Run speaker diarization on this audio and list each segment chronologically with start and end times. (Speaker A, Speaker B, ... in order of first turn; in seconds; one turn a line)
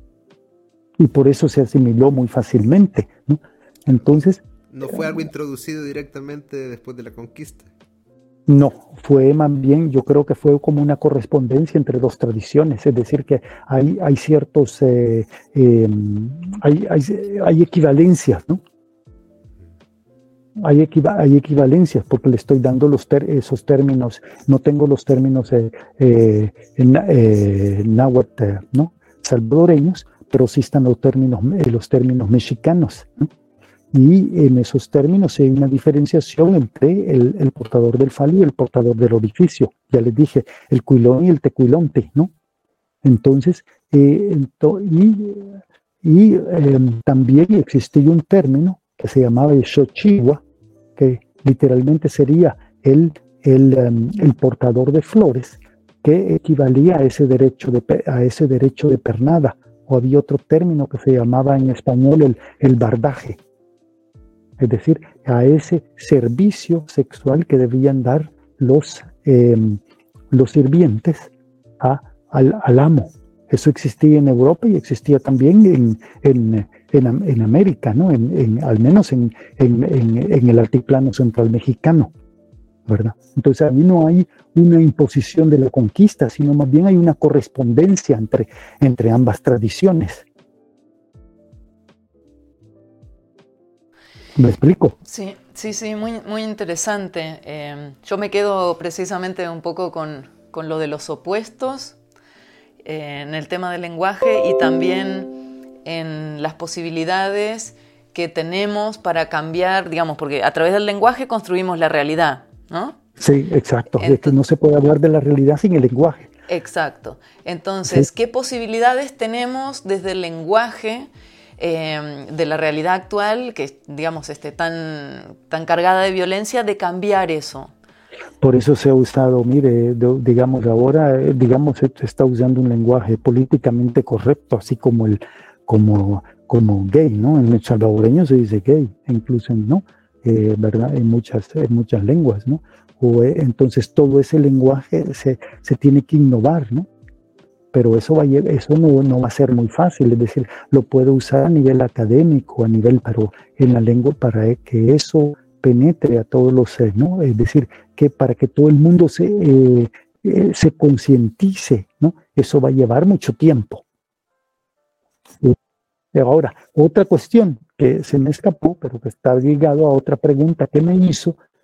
Speaker A: 1.0-5.2
Speaker B: 4.7-7.7
Speaker A: 8.5-18.6
Speaker A: 20.6-33.3
Speaker A: 33.9-42.3
Speaker A: 43.0-50.4
Speaker A: 51.0-63.4
Speaker A: 64.6-82.1
Speaker A: 82.9-90.2
Speaker A: 94.3-95.0
Speaker C: 95.0-102.0
Speaker C: 102.8-113.0
Speaker A: 113.2-116.3
Speaker C: 114.0-114.4
Speaker C: 116.5-127.7
Speaker A: 128.4-146.9
Speaker A: 147.7-163.8
Speaker A: 166.1-171.4